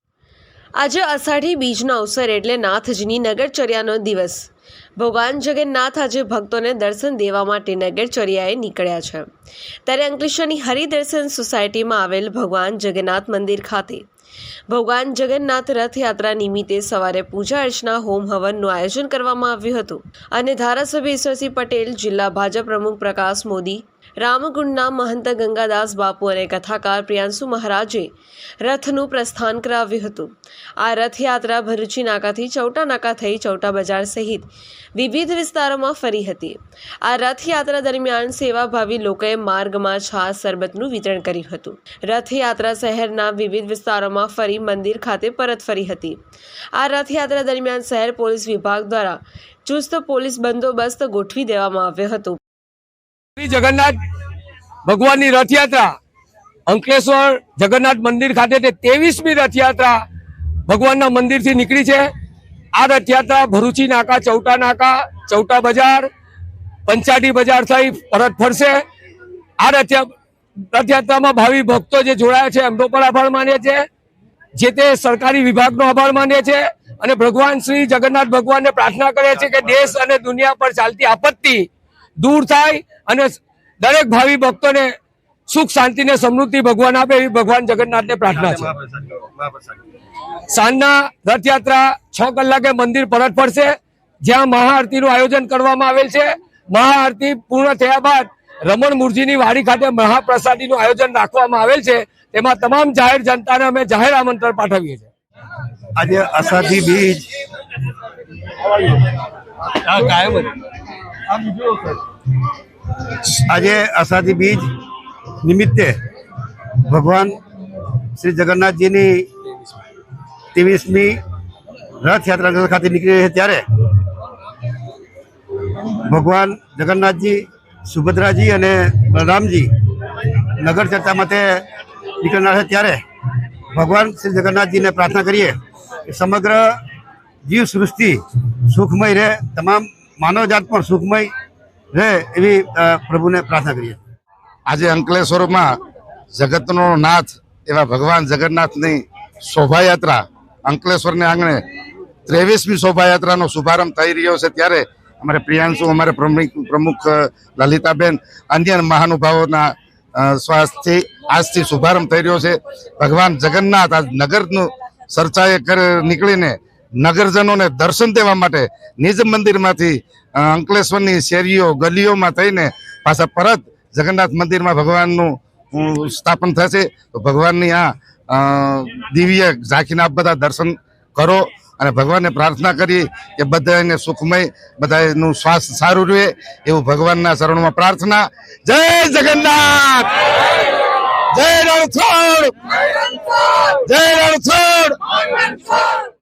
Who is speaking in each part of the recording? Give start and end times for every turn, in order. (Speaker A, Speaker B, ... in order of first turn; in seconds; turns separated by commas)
Speaker A: 0.8-9.3, Speaker A: 9.8-14.1, Speaker A: 14.7-28.1, Speaker A: 28.6-46.2, Speaker A: 46.7-52.4, Speaker B: 53.4-54.0, Speaker B: 54.8-55.9, Speaker B: 56.7-60.0, Speaker B: 60.6-62.1, Speaker B: 62.7-66.1, Speaker B: 66.8-68.8, Speaker B: 69.6-70.1, Speaker B: 70.7-73.8, Speaker B: 74.5-81.7, Speaker B: 82.2-84.9, Speaker B: 85.5-88.7, Speaker C: 88.8-89.6, Speaker B: 90.5-105.1, Speaker C: 106.0-107.4, Speaker B: 109.8-110.6, Speaker C: 113.2-114.8, Speaker C: 115.4-115.9, Speaker C: 116.7-119.2, Speaker C: 120.5-121.2, Speaker C: 122.0-123.6, Speaker C: 125.7-131.6, Speaker C: 132.2-133.0, Speaker C: 133.7-135.5, Speaker C: 136.1-136.8, Speaker C: 137.4-141.3, Speaker C: 141.9-144.0, Speaker D: 144.7-145.7, Speaker D: 146.3-151.6, Speaker D: 152.2-190.5, Speaker D: 191.3-192.5, Speaker D: 193.1-196.0